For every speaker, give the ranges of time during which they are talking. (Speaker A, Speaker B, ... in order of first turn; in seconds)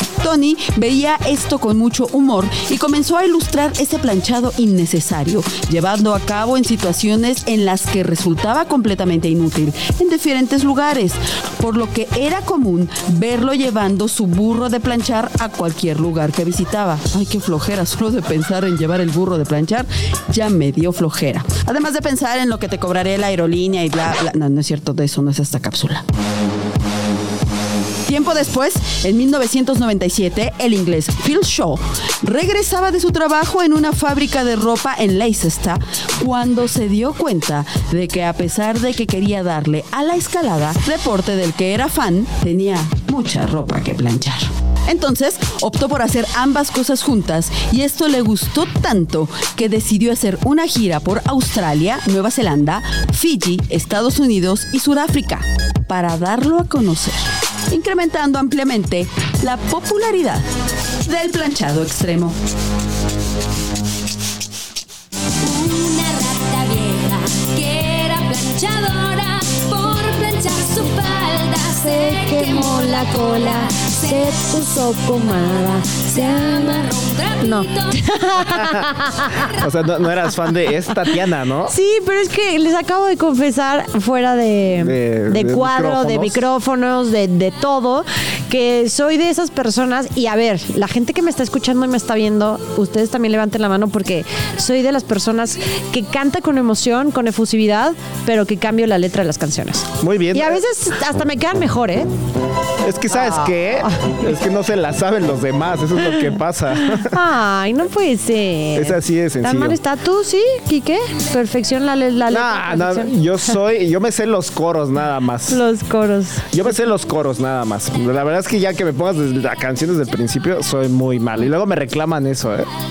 Speaker A: 0.2-26.0, 28.1-60.5, 61.0-62.4
Speaker B: 66.0-66.5, 68.2-68.9, 69.5-70.6, 71.1-71.6
Speaker C: 71.7-79.5, 81.7-102.1, 103.1-104.1, 106.8-113.1, 115.5-116.5
Speaker D: 78.6-78.8, 79.5-81.8, 84.8-86.5, 100.0-100.6, 102.8-107.2, 108.8-109.8, 112.3-115.6, 116.5-122.7